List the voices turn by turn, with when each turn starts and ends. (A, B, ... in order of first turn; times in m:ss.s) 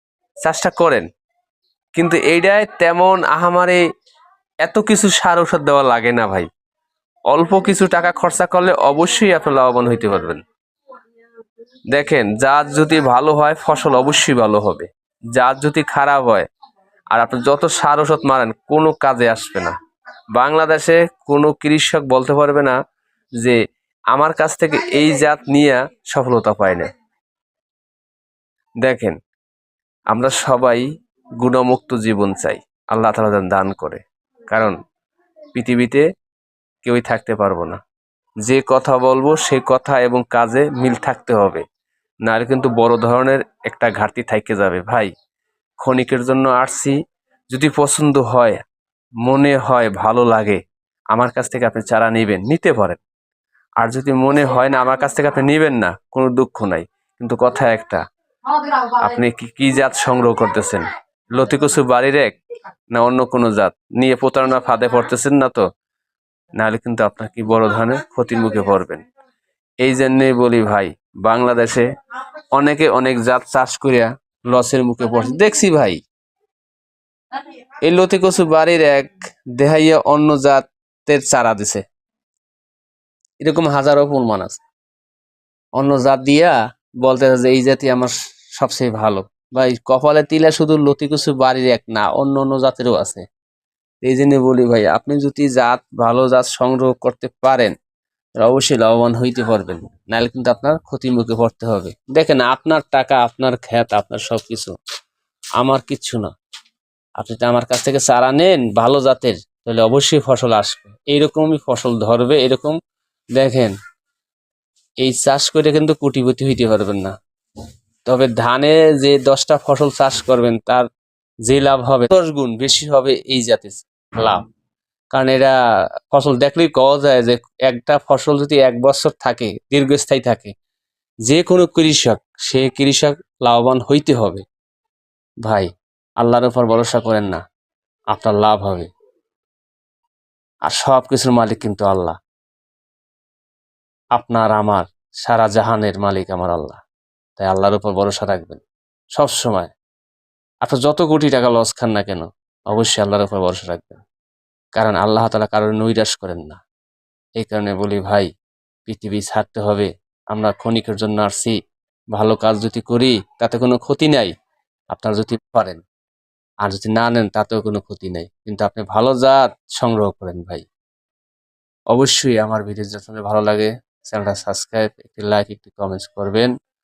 0:00.4-0:01.1 A
0:02.0-0:03.8 A
0:04.6-0:06.5 A
0:07.3-0:10.4 A
0:11.9-0:16.5 A
0:17.1-0:19.7 A
0:20.4-0:22.8 A
0:24.1-0:26.9 A
0:28.8-0:29.2 A
0:30.1-0:30.8 A
0:31.4-0:34.8 A
0:35.5-0:36.0 A
0:36.8-0:37.8 A
0:38.4-0:41.6 A
0:42.3-0:45.1 A
0:45.8-0:47.0 A
0:47.5-0:48.6 A
0:49.2-0:50.6 A
0:51.1-0:53.0 A
0:53.8-0:58.0 A
0:58.8-1:02.4 A
1:02.9-1:05.6 A
1:06.6-1:09.0 A
1:09.8-1:11.9 A
1:12.5-1:16.0 A
1:17.8-1:21.8 A
1:23.4-1:24.6 A
1:25.8-1:33.2 A
1:34.0-1:37.7 A
1:38.4-1:44.8 A
1:45.6-1:46.3 A
1:47.2-1:52.8 A
1:53.4-1:53.7 A
1:55.0-1:57.2 A
1:58.1-2:00.9 A
2:01.5-2:04.4 A
2:05.1-2:05.5 A
2:06.1-2:10.5 A
2:11.3-2:14.4 A
2:16.2-2:17.4 A
2:18.1-2:18.9 A
2:20.7-2:22.2 A
2:24.2-2:26.8 A
2:27.4-2:28.6 A
2:29.2-2:29.7 A
2:30.6-2:34.0 A
2:34.8-2:36.6 A
2:37.4-2:38.3 A
2:38.9-2:41.6 A
2:42.2-2:44.3 A
2:44.9-2:45.8 A
2:46.6-2:50.6 A
2:51.9-2:56.5 A